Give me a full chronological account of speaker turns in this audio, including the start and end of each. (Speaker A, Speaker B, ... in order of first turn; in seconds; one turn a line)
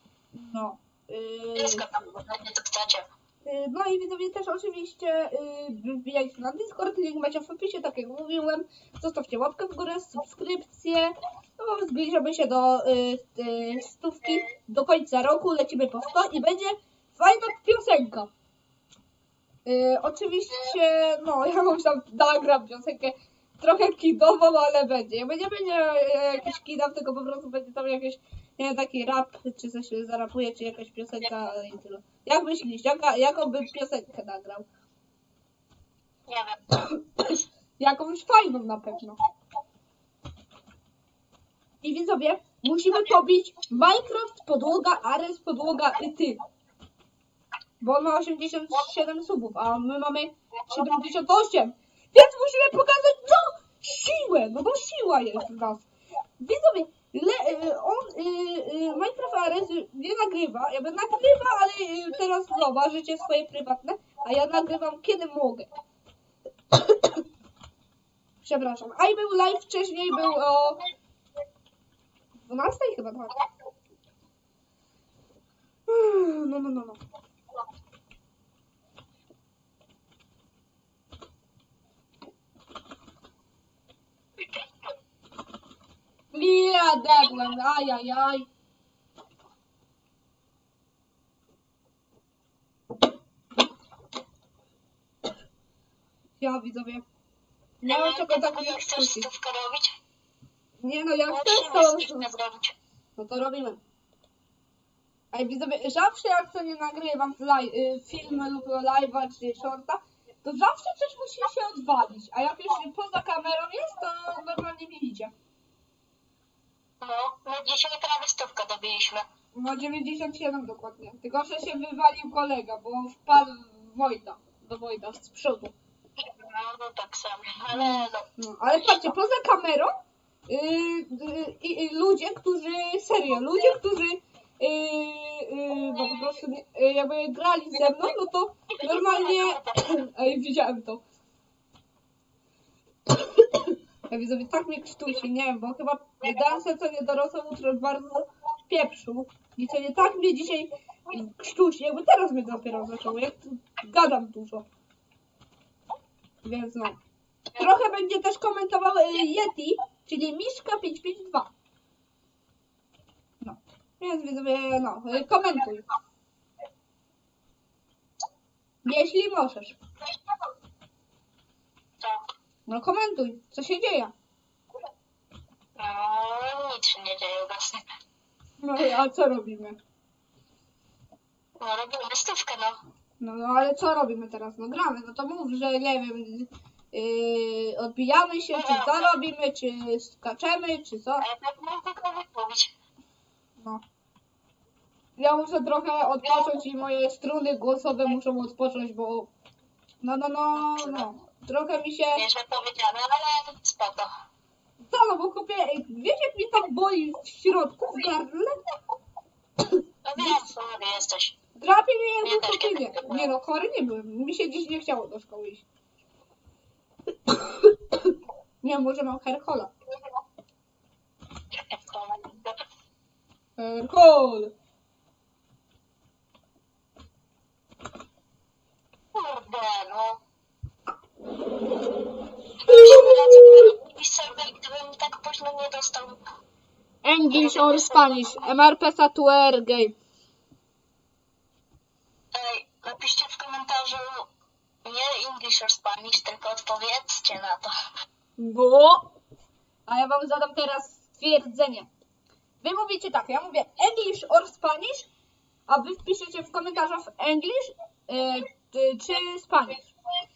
Speaker A: 0.3-1.9
Speaker B: 1.6-3.0
Speaker A: 3.4-18.3
Speaker A: 19.6-34.6
Speaker B: 36.3-36.8
Speaker A: 37.2-39.2
Speaker A: 41.8-46.4
Speaker A: 47.8-55.9
Speaker A: 56.4-65.7
Speaker A: 66.7-67.2
Speaker A: 68.4-70.8
Speaker A: 72.4-73.4
Speaker A: 75.9-77.0
Speaker A: 86.3-88.5
Speaker A: 96.4-97.0
Speaker A: 97.8-99.3
Speaker B: 97.8-99.9
Speaker A: 100.8-102.3
Speaker B: 101.3-102.7
Speaker A: 103.2-103.8
Speaker A: 105.3-115.3
Speaker B: 117.0-119.2
Speaker A: 119.5-125.7
Speaker B: 126.2-129.1
Speaker A: 127.7-129.9
Speaker A: 130.5-141.0
Speaker B: 138.8-139.7
Speaker A: 143.1-154.7
Speaker A: 156.4-157.0
Speaker A: 157.6-161.5
Speaker A: 163.4-165.9
Speaker A: 168.8-169.8
Speaker A: 172.7-174.1
Speaker B: 175.8-177.8
Speaker A: 178.6-179.8
Speaker B: 181.6-182.8
Speaker A: 183.2-191.2
Speaker B: 188.5-189.2
Speaker B: 191.2-192.7
Speaker A: 193.6-193.8
Speaker A: 195.2-199.3
Speaker B: 196.2-196.5
Speaker A: 200.0-202.2
Speaker B: 200.6-201.1
Speaker B: 202.2-204.1
Speaker A: 204.8-208.5
Speaker B: 210.1-211.3
Speaker A: 211.6-215.7
Speaker B: 212.2-213.4
Speaker A: 217.2-219.7
Speaker B: 221.7-222.6
Speaker A: 223.6-224.5
Speaker B: 229.1-230.2
Speaker B: 232.6-236.2
Speaker A: 232.7-233.7
Speaker A: 237.0-239.9
Speaker B: 237.3-238.2
Speaker B: 242.3-244.3
Speaker B: 244.8-247.7
Speaker A: 248.4-249.1
Speaker A: 249.9-251.9
Speaker A: 252.6-255.1
Speaker A: 255.7-259.9